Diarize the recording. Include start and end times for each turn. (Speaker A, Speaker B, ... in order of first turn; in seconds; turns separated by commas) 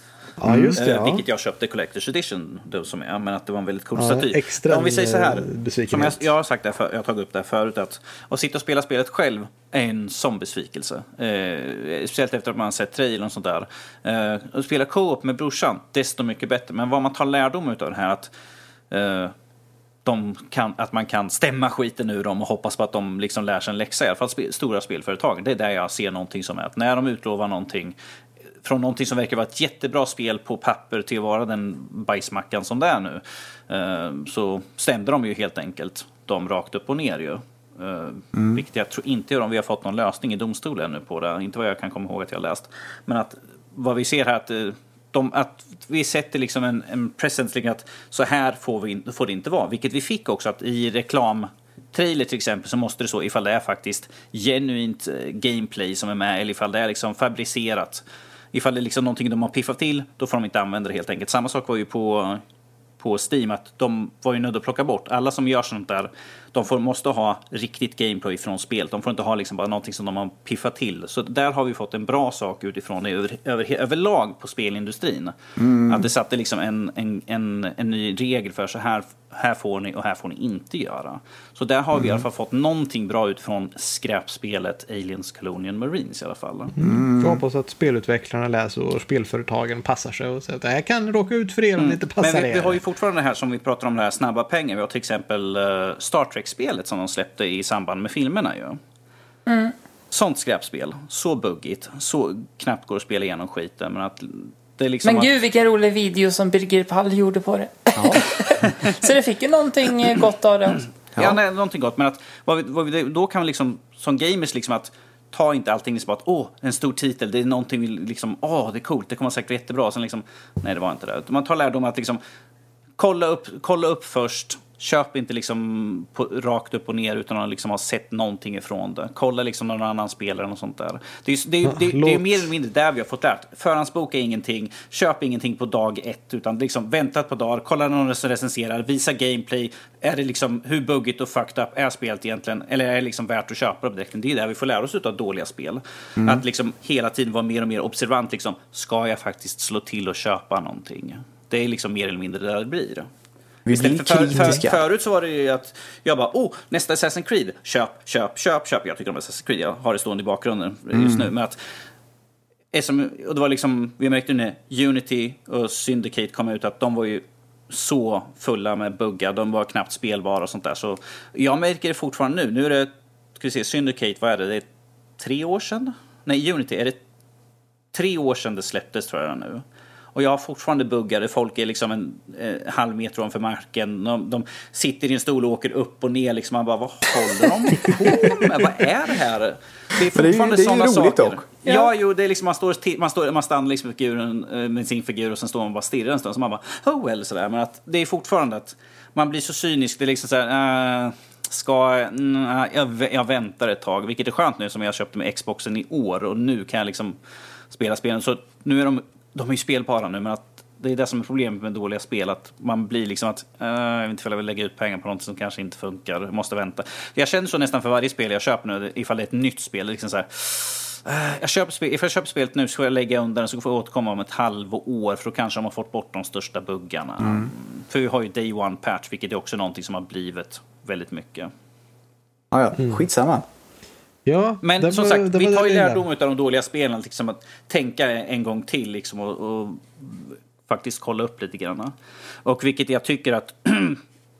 Speaker A: 0.4-1.2, Speaker B: 0.5-0.8, Speaker C: 0.7-18.3, Speaker A: 4.0-6.2, Speaker C: 18.9-19.3, Speaker C: 20.0-27.9, Speaker C: 28.6-62.4, Speaker B: 38.3-38.6, Speaker C: 63.0-86.7, Speaker B: 75.6-76.1, Speaker B: 82.0-82.2, Speaker A: 86.7-92.8, Speaker B: 86.8-87.4, Speaker C: 91.8-98.8, Speaker D: 99.5-99.7, Speaker C: 100.1-105.3, Speaker D: 105.0-110.9, Speaker B: 107.9-108.2, Speaker C: 111.2-122.2, Speaker C: 123.0-153.1, Speaker A: 131.7-132.5, Speaker B: 153.7-154.8, Speaker C: 153.7-161.6, Speaker B: 160.9-161.3, Speaker C: 162.7-174.7, Speaker C: 175.2-177.0, Speaker C: 177.9-179.6, Speaker C: 180.1-207.2, Speaker B: 190.1-191.4, Speaker C: 207.7-231.5, Speaker B: 227.2-227.5, Speaker B: 232.5-233.4, Speaker A: 232.8-233.0, Speaker A: 234.2-236.0, Speaker C: 234.6-241.9, Speaker C: 242.4-244.0